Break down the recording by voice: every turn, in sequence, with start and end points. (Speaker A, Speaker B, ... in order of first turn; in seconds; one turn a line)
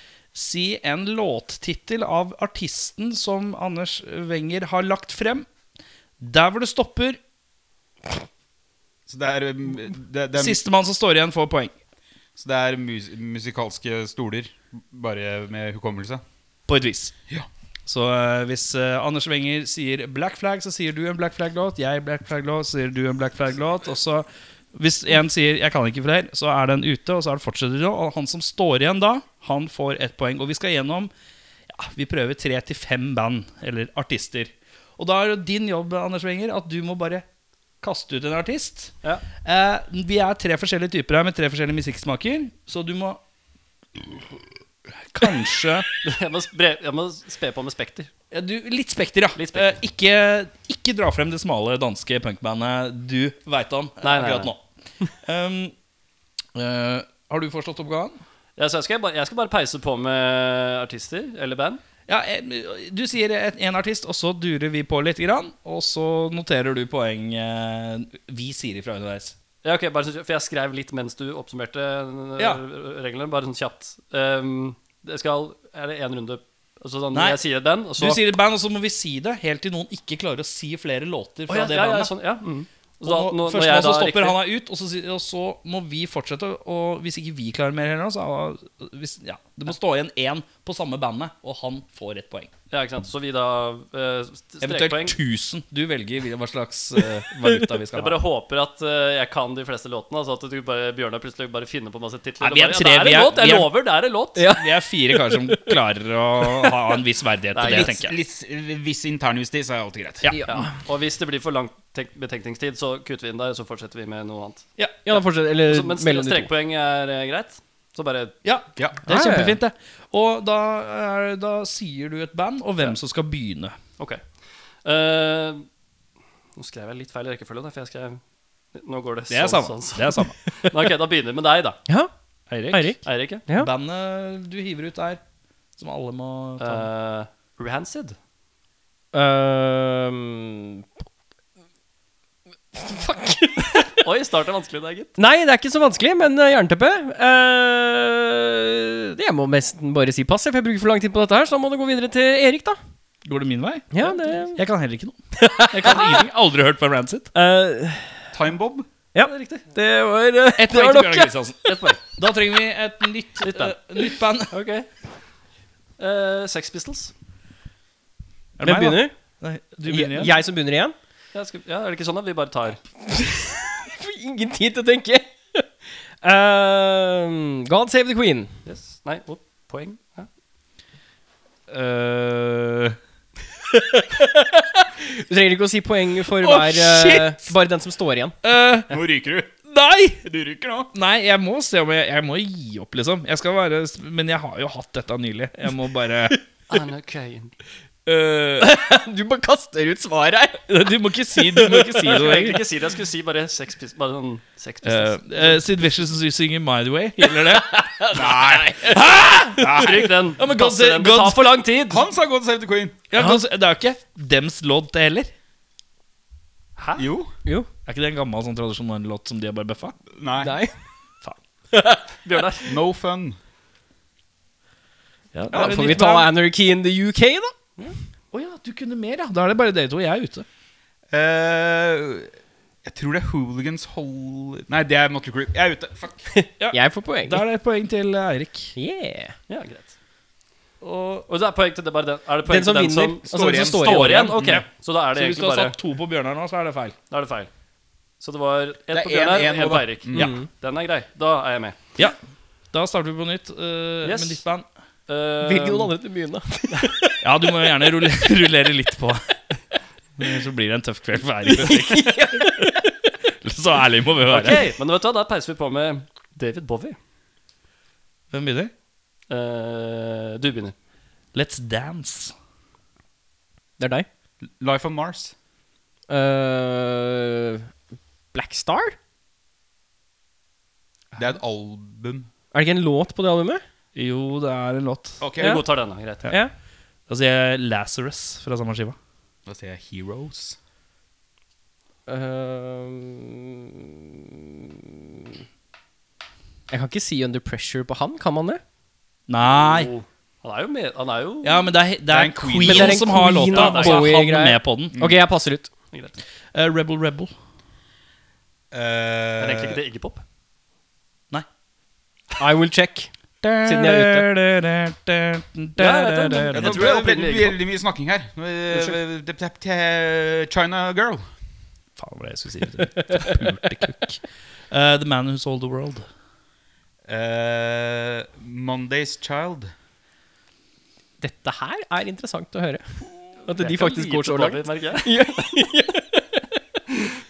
Speaker A: 0.3-5.5
Speaker A: 6.2-7.2
Speaker B: 9.1-10.6
Speaker A: 10.3-11.7
Speaker B: 12.4-16.2
Speaker A: 16.7-17.1
Speaker A: 17.9-31.1
Speaker A: 31.7-37.2
Speaker A: 37.8-43.2
Speaker A: 45.0-45.9
Speaker C: 46.0-48.1
Speaker A: 48.3-54.6
Speaker C: 49.4-49.8
Speaker C: 54.0-54.5
Speaker A: 55.2-55.7
Speaker A: 56.5-58.2
Speaker C: 58.6-61.8
Speaker A: 62.1-69.3
Speaker C: 69.6-78.2
Speaker A: 77.1-77.4
Speaker A: 78.0-82.1
Speaker C: 81.5-84.4
Speaker A: 83.0-92.5
Speaker C: 92.7-95.2
Speaker A: 94.6-98.2
Speaker C: 97.9-104.5
Speaker A: 102.4-103.7
Speaker D: 104.3-105.7
Speaker A: 104.5-108.1
Speaker C: 107.5-108.0
Speaker B: 107.7-110.3
Speaker D: 110.3-110.7
Speaker C: 110.5-114.7
Speaker D: 115.0-116.5
Speaker C: 115.7-118.3
Speaker A: 118.4-123.8
Speaker D: 119.1-119.6
Speaker C: 124.8-125.7
Speaker C: 126.5-128.2
Speaker C: 128.7-131.8
Speaker A: 129.3-130.4
Speaker A: 132.5-133.0
Speaker D: 132.7-133.7
Speaker C: 133.1-133.4
Speaker A: 133.5-135.2
Speaker A: 135.8-136.9
Speaker C: 136.6-138.2
Speaker D: 139.1-140.8
Speaker D: 142.7-144.0
Speaker C: 143.9-145.1
Speaker D: 145.2-152.8
Speaker A: 153.2-157.3
Speaker D: 153.9-154.6
Speaker D: 155.4-156.2
Speaker D: 157.3-158.3
Speaker B: 158.3-158.8
Speaker D: 159.1-161.4
Speaker C: 159.2-159.7
Speaker A: 160.6-164.5
Speaker C: 161.7-162.0
Speaker C: 163.4-164.9
Speaker C: 166.0-167.1
Speaker A: 168.6-170.3
Speaker D: 168.6-169.1
Speaker D: 169.8-170.9
Speaker C: 171.3-172.8
Speaker D: 173.1-175.7
Speaker D: 176.2-178.5
Speaker C: 178.7-180.3
Speaker A: 181.7-183.0
Speaker D: 183.9-188.3
Speaker A: 186.3-187.5
Speaker A: 188.4-189.0
Speaker B: 188.9-189.5
Speaker A: 189.7-190.2
Speaker B: 190.2-190.9
Speaker A: 190.9-196.4
Speaker C: 196.7-197.5
Speaker A: 198.1-198.7
Speaker D: 198.6-200.6
Speaker A: 200.7-202.6
Speaker D: 201.4-201.8
Speaker C: 202.0-205.6
Speaker A: 204.8-211.6
Speaker D: 207.5-208.5
Speaker B: 208.1-209.0
Speaker B: 209.6-210.0
Speaker C: 209.6-212.1
Speaker B: 211.9-213.0
Speaker A: 213.1-215.3
Speaker C: 216.8-217.1
Speaker B: 216.9-217.3
Speaker A: 217.8-219.9
Speaker B: 220.1-220.6
Speaker D: 220.4-220.7
Speaker D: 221.7-222.0
Speaker C: 222.2-222.7
Speaker B: 222.7-223.4
Speaker A: 225.3-226.3
Speaker D: 225.5-227.6
Speaker A: 228.3-230.4
Speaker B: 231.1-232.3
Speaker B: 232.8-236.3
Speaker D: 236.3-237.4
Speaker A: 236.6-238.7
Speaker D: 238.8-239.3
Speaker C: 239.5-239.9
Speaker A: 240.8-241.3
Speaker C: 241.3-245.8
Speaker D: 242.4-244.3
Speaker B: 243.3-244.6
Speaker A: 243.8-246.9
Speaker C: 247.1-247.5
Speaker C: 248.2-251.8
Speaker B: 248.9-250.4
Speaker D: 250.1-250.5
Speaker A: 252.7-254.7
Speaker C: 254.0-254.4
Speaker C: 255.1-255.9
Speaker D: 255.4-257.1
Speaker A: 257.2-259.3
Speaker A: 260.2-262.7
Speaker D: 261.6-262.8
Speaker A: 263.3-264.6
Speaker C: 264.3-267.0
Speaker A: 268.3-268.7
Speaker C: 269.3-270.7
Speaker A: 271.3-272.3
Speaker D: 273.8-274.1
Speaker B: 274.4-275.3
Speaker D: 276.1-277.7
Speaker D: 278.3-279.0
Speaker B: 281.1-282.3
Speaker D: 282.5-283.6
Speaker A: 283.9-285.2
Speaker B: 285.2-285.6
Speaker C: 285.4-286.3
Speaker D: 285.4-285.6
Speaker D: 286.3-286.5
Speaker A: 287.1-289.0
Speaker B: 289.4-290.6
Speaker D: 292.1-294.9
Speaker D: 296.7-298.6
Speaker A: 299.3-299.9
Speaker C: 299.4-301.7
Speaker A: 301.4-305.0
Speaker B: 302.1-303.2
Speaker D: 302.6-305.7
Speaker C: 303.5-304.1
Speaker B: 304.9-305.2
Speaker A: 306.5-307.3
Speaker B: 308.7-309.8
Speaker C: 309.4-310.2
Speaker D: 312.4-313.1
Speaker A: 313.4-316.9
Speaker D: 313.6-314.3
Speaker C: 315.8-317.6
Speaker B: 316.5-321.2
Speaker C: 318.7-319.0
Speaker A: 322.0-326.1
Speaker B: 327.1-329.7
Speaker D: 331.2-336.4
Speaker C: 333.6-335.5